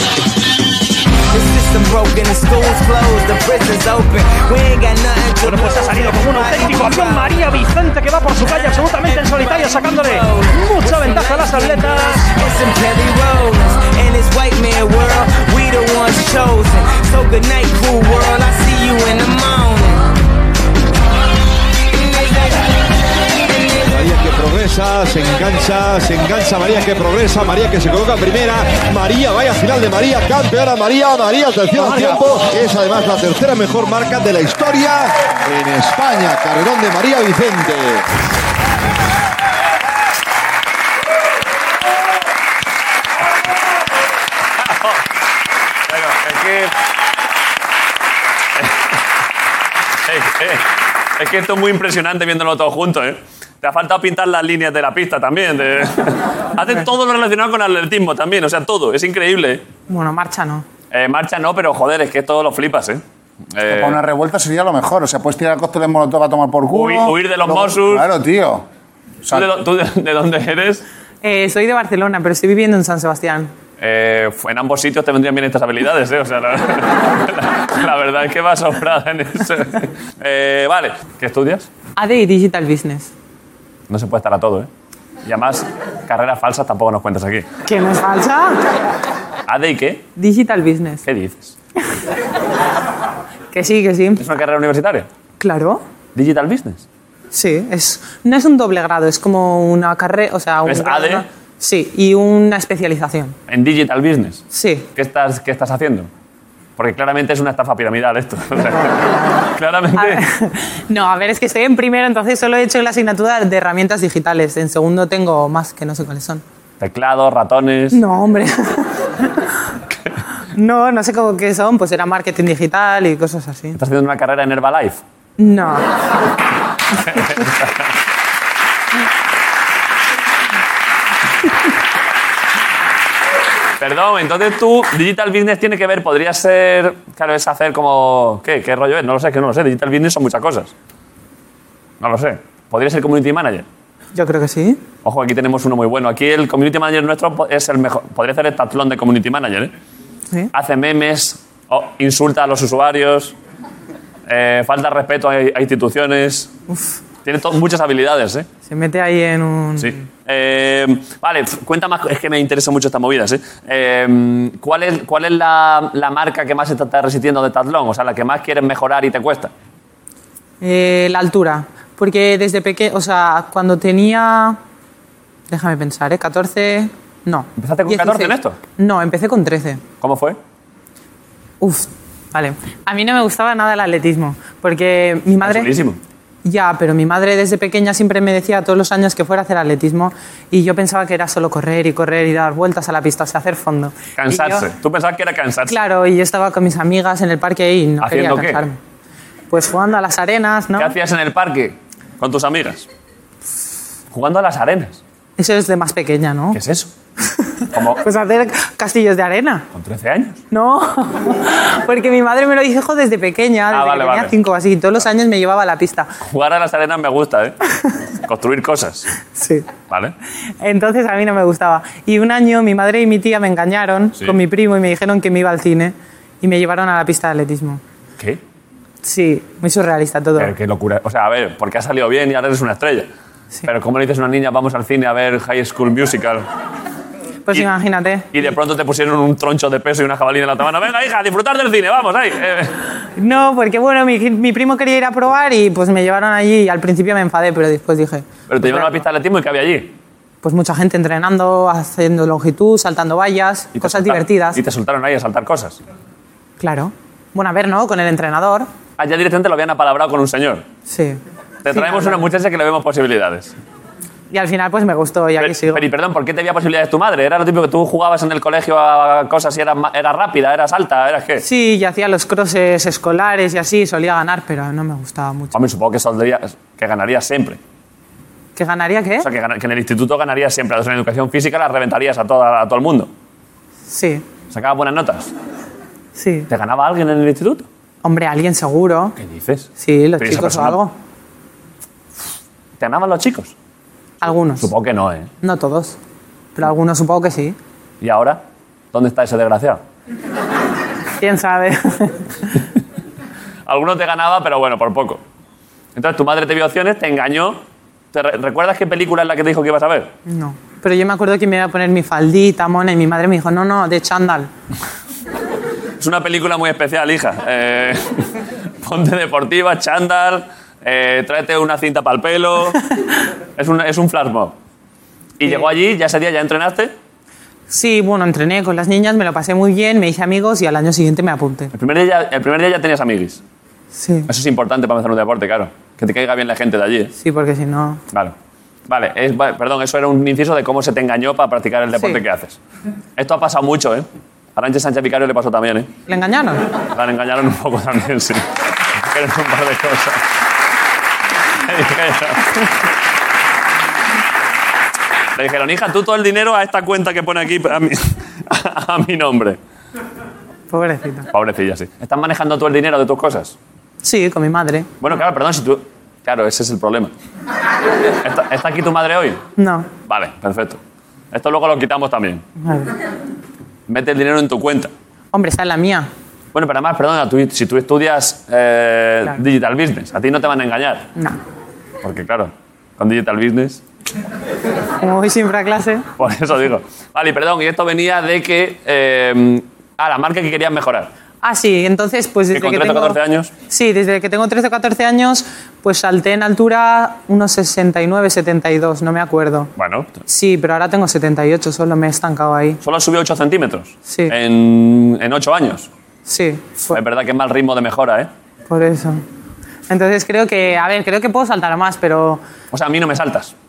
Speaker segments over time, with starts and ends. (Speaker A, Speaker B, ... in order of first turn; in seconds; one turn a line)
Speaker A: 1.3-7.5
Speaker B: 5.4-12.2
Speaker A: 8.3-20.1
Speaker A: 21.9-22.7
Speaker C: 23.9-38.0
Speaker D: 44.6-45.0
Speaker D: 45.9-46.7
Speaker D: 50.0-50.7
Speaker D: 51.2-59.6
Speaker E: 59.9-60.6
Speaker D: 60.9-63.0
Speaker D: 63.5-64.0
Speaker F: 63.6-68.7
Speaker D: 66.7-68.1
Speaker D: 69.3-70.8
Speaker E: 71.2-73.5
Speaker D: 73.8-81.7
Speaker E: 82.0-83.1
Speaker D: 83.9-84.7
Speaker D: 85.2-87.5
Speaker E: 87.7-88.5
Speaker D: 89.5-90.0
Speaker E: 90.2-91.0
Speaker D: 91.0-91.5
Speaker E: 93.5-94.2
Speaker D: 94.2-95.1
Speaker E: 95.4-95.8
Speaker D: 96.1-96.8
Speaker E: 97.3-103.3
Speaker D: 100.7-101.2
Speaker D: 103.5-104.4
Speaker E: 104.5-104.9
Speaker D: 105.0-106.1
Speaker D: 106.8-110.2
Speaker E: 108.6-109.4
Speaker E: 109.9-116.4
Speaker D: 116.8-118.0
Speaker E: 117.9-119.6
Speaker E: 120.5-123.8
Speaker D: 123.8-125.0
Speaker E: 125.4-125.9
Speaker D: 127.0-127.9
Speaker D: 133.8-140.7
Speaker D: 142.0-143.7
Speaker E: 144.1-144.8
Speaker D: 145.0-149.7
Speaker D: 150.5-153.3
Speaker D: 154.3-156.5
Speaker E: 156.7-156.9
Speaker D: 157.2-158.4
Speaker E: 158.7-160.0
Speaker D: 159.8-169.5
Speaker E: 170.6-174.6
Speaker E: 175.5-179.8
Speaker D: 177.6-178.6
Speaker D: 180.0-180.4
Speaker E: 181.6-185.7
Speaker D: 185.4-186.0
Speaker E: 186.4-194.6
Speaker D: 194.2-195.7
Speaker E: 195.7-198.8
Speaker D: 198.0-198.6
Speaker E: 199.5-200.9
Speaker D: 200.8-202.9
Speaker D: 204.1-205.0
Speaker E: 205.4-206.6
Speaker D: 206.5-206.9
Speaker E: 207.3-209.6
Speaker D: 207.7-208.0
Speaker D: 209.7-210.4
Speaker E: 210.5-216.1
Speaker D: 213.7-214.3
Speaker D: 216.2-217.6
Speaker D: 218.2-219.1
Speaker E: 219.3-219.7
Speaker D: 219.9-220.1
Speaker E: 220.6-227.8
Speaker E: 229.0-230.5
Speaker D: 230.4-233.1
Speaker D: 233.6-236.4
Speaker E: 237.5-238.3
Speaker D: 238.3-242.8
Speaker E: 243.2-248.9
Speaker D: 248.5-249.9
Speaker E: 250.4-254.6
Speaker D: 253.8-255.8
Speaker E: 256.6-258.7
Speaker D: 259.0-260.6
Speaker E: 260.9-262.2
Speaker D: 261.6-263.5
Speaker E: 264.3-265.8
Speaker D: 265.4-271.4
Speaker E: 271.4-275.5
Speaker D: 275.5-277.6
Speaker E: 278.6-279.3
Speaker D: 279.2-283.1
Speaker E: 283.9-284.2
Speaker D: 284.5-285.3
Speaker E: 286.1-286.5
Speaker D: 286.5-287.6
Speaker E: 288.0-289.1
Speaker D: 289.2-289.7
Speaker E: 289.8-290.9
Speaker D: 290.2-290.8
Speaker D: 292.8-293.5
Speaker E: 294.2-294.6
Speaker D: 294.6-295.3
Speaker E: 295.4-296.0
Speaker E: 296.6-297.6
Speaker D: 298.0-298.4
Speaker D: 298.9-299.8
Speaker E: 301.2-302.6
Speaker D: 303.7-305.2
Speaker D: 305.9-307.6
Speaker D: 308.1-310.1
Speaker E: 310.3-314.5
Speaker D: 316.0-322.8
Speaker D: 323.6-324.5
Speaker D: 325.4-326.9
Speaker E: 327.7-331.7
Speaker D: 331.7-333.4
Speaker E: 333.9-334.3
Speaker D: 334.3-337.1
Speaker E: 337.2-338.0
Speaker D: 338.9-342.6
Speaker E: 341.9-342.2
Speaker D: 343.2-345.9
Speaker E: 346.1-346.6
Speaker D: 346.9-348.4
Speaker D: 349.0-350.2
Speaker D: 351.5-352.7
Speaker D: 355.4-359.6
Speaker E: 360.7-361.3
Speaker D: 361.3-363.5
Speaker E: 364.0-365.2
Speaker D: 365.0-367.1
Speaker D: 368.2-369.4
Speaker E: 369.6-369.9
Speaker D: 370.1-370.8
Speaker D: 371.3-372.4
Speaker E: 372.6-372.9
Speaker D: 373.9-374.9
Speaker E: 375.3-376.1
Speaker D: 376.5-381.1
Speaker D: 382.0-383.8
Speaker E: 385.0-386.1
Speaker D: 386.2-391.1
Speaker E: 391.4-393.2
Speaker D: 392.5-393.5
Speaker E: 393.7-399.7
Speaker D: 399.8-400.1
Speaker E: 400.3-402.8
Speaker D: 402.8-405.9
Speaker E: 404.1-404.3
Speaker E: 406.3-407.0
Speaker D: 406.9-408.3
Speaker E: 408.7-409.2
Speaker E: 409.9-412.4
Speaker D: 412.7-413.5